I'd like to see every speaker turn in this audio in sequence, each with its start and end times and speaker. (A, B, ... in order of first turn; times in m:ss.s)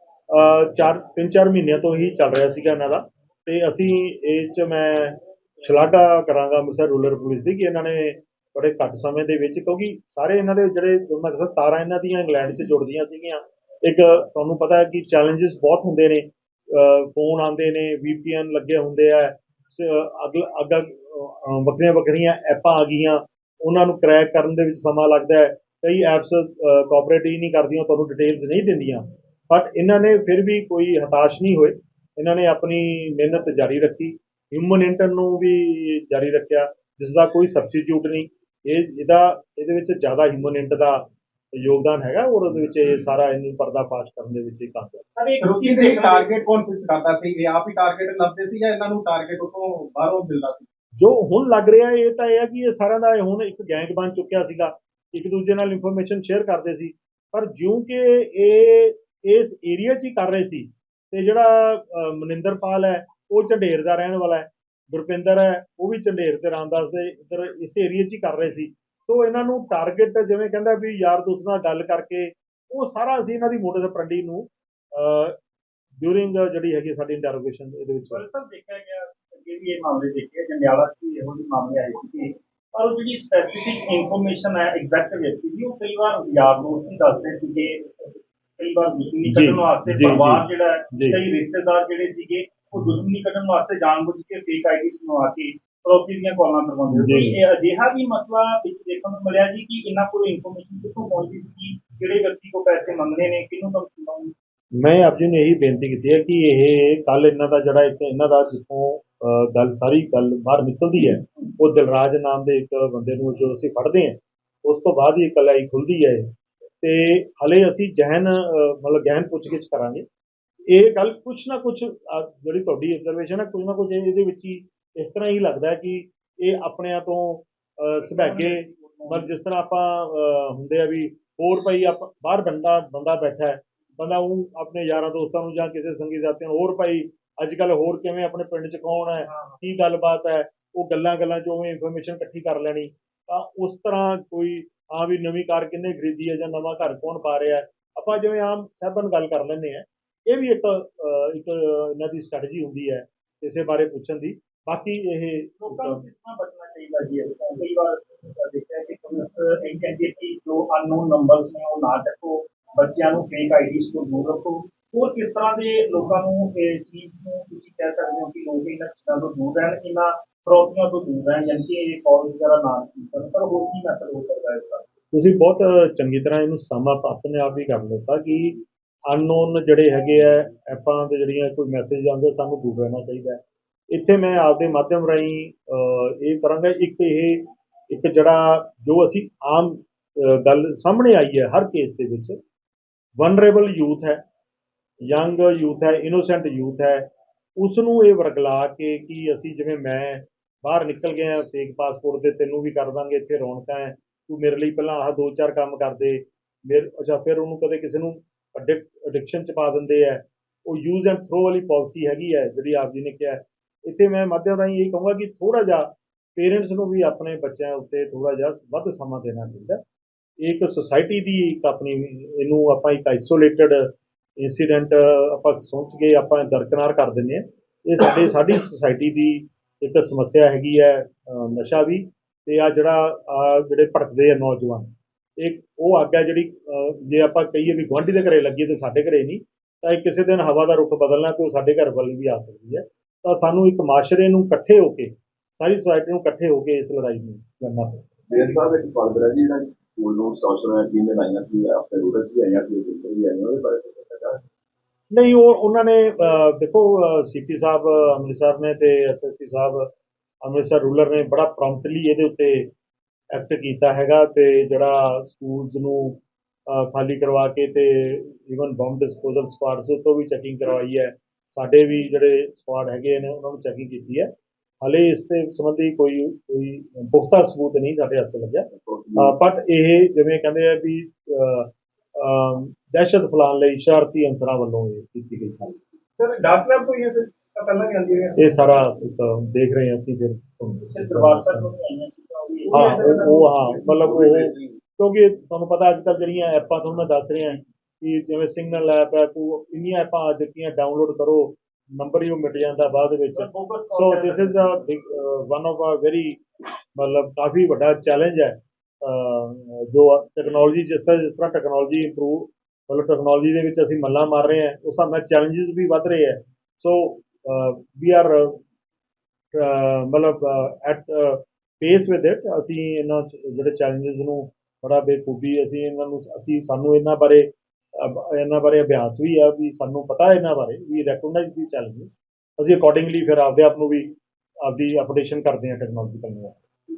0:00.3-0:41.0 A
0:41.6-0:45.0 A
0:45.2-0:46.3 B
0:45.4-0:50.6 C
0:51.0-1:15.4 A
1:16.0-1:18.2 A
1:18.1-1:44.3 B
1:29.2-1:31.2 A
1:36.9-1:37.4 A
1:44.8-1:56.3 A
1:56.8-2:00.0 A
2:00.7-2:36.0 A
2:08.0-2:09.3 B
2:19.2-2:19.6 B
2:35.6-2:54.8 B
2:55.1-3:03.4 A
3:03.9-3:12.4 A
3:13.2-3:14.2 A
3:15.1-3:17.1 A
3:17.6-3:39.8 A
3:40.4-3:54.9 A
3:55.4-4:08.1 A
4:08.3-4:14.4 D
4:15.1-4:19.9 A
4:20.4-4:22.7 A
4:23.3-4:34.3 A
4:34.8-4:45.8 A
4:38.7-4:39.3 D
4:46.2-4:48.4 B
4:48.4-4:51.7 A
4:50.9-4:53.4 B
4:52.7-5:06.4 A
4:53.8-4:54.7 D
5:03.3-5:04.7 B
5:07.0-5:18.6 A
5:19.5-5:34.1 A
5:34.6-5:36.6 A